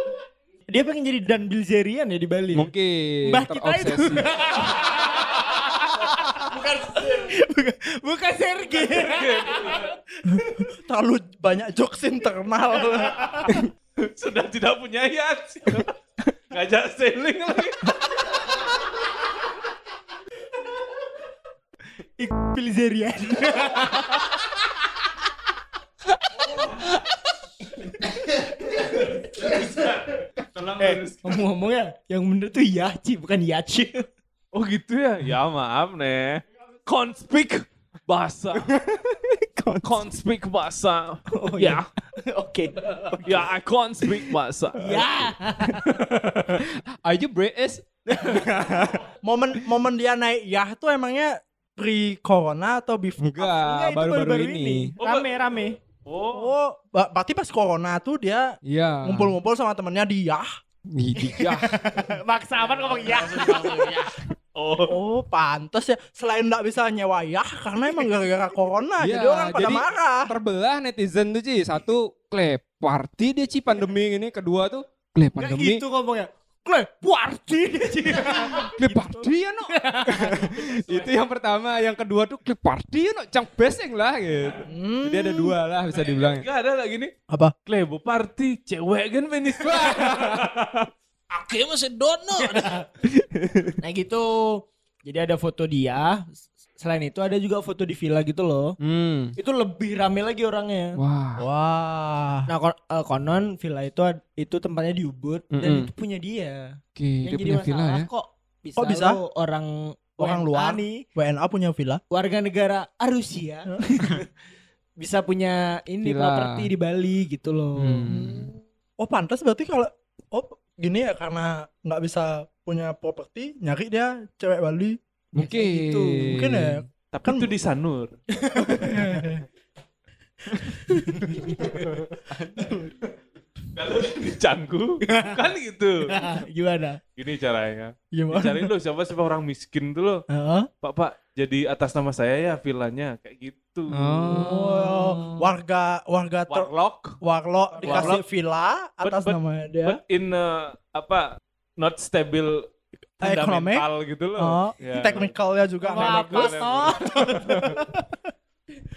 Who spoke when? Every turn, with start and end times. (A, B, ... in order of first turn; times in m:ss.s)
0:00.7-0:02.7 A
0:02.6-0:04.5 B
0:03.2-0:09.9 A
0:06.5-0:07.3 C
0:08.9-0:09.9 D
0:10.3-0:13.4 E
0:14.0-0:15.9 D
0:16.5-0:18.0 D
0:22.2-0:24.4 A
0:26.4-0:26.9 A
0:29.5-0:29.9 D
0:30.4-0:31.4 D
0:30.8-0:34.1 A
0:34.5-0:38.7 D
0:38.6-0:40.0 B
0:39.8-0:41.9 D
0:41.3-0:43.5 A
0:43.2-0:45.0 D
0:44.8-0:45.9 A
0:46.6-0:49.1 B
0:48.1-0:48.4 A
0:49.2-0:53.3 E
0:53.2-0:54.9 B
0:53.4-0:55.8 A
0:55.0-0:55.3 D
0:56.1-0:56.5 D
0:56.3-1:00.5 E
0:58.6-0:59.3 B
1:00.9-1:01.8 B
1:01.2-1:04.0 A
1:02.7-1:03.9 D
1:03.1-1:04.1 C
1:04.6-1:05.0 D
1:04.9-1:10.3 E
1:09.0-1:15.8 B
1:15.4-1:20.5 A
1:18.5-1:26.4 B
1:20.9-1:21.1 D
1:24.7-1:25.6 E
1:25.9-1:27.1 D
1:27.3-1:27.6 E
1:27.6-1:30.9 D
1:31.3-1:32.8 C
1:33.2-1:33.7 B
1:33.8-1:38.8 A
1:38.8-1:39.4 B
1:39.4-1:41.0 A
1:41.0-1:41.4 B
1:41.4-1:42.5 E
1:42.5-1:51.0 A
1:45.5-1:45.9 B
1:47.0-1:48.1 B
1:48.8-1:49.2 E
1:50.2-1:52.0 E
1:52.1-1:54.2 A
1:53.7-1:54.1 E
1:55.0-1:58.1 A
1:56.0-1:56.7 B
1:57.8-1:58.5 B
1:58.1-2:07.5 E
2:05.4-2:06.8 B
2:05.4-2:06.0 A
2:07.1-2:08.1 D
2:08.4-2:09.1 A
2:08.6-2:09.4 E
2:11.1-2:11.8 A
2:13.8-2:16.1 D
2:15.1-2:15.4 A
2:16.1-2:17.0 A
2:17.2-2:20.2 D
2:18.1-2:18.7 E
2:20.3-2:20.7 E
2:20.8-2:24.2 D
2:23.9-2:25.0 B
2:24.3-2:26.7 E
2:26.5-2:27.2 D
2:27.2-2:30.0 E
2:27.8-2:28.1 A
2:27.8-2:28.2 D
2:29.0-2:35.3 D
2:33.2-2:37.8 E
2:35.9-2:38.0 A
2:35.9-2:37.7 D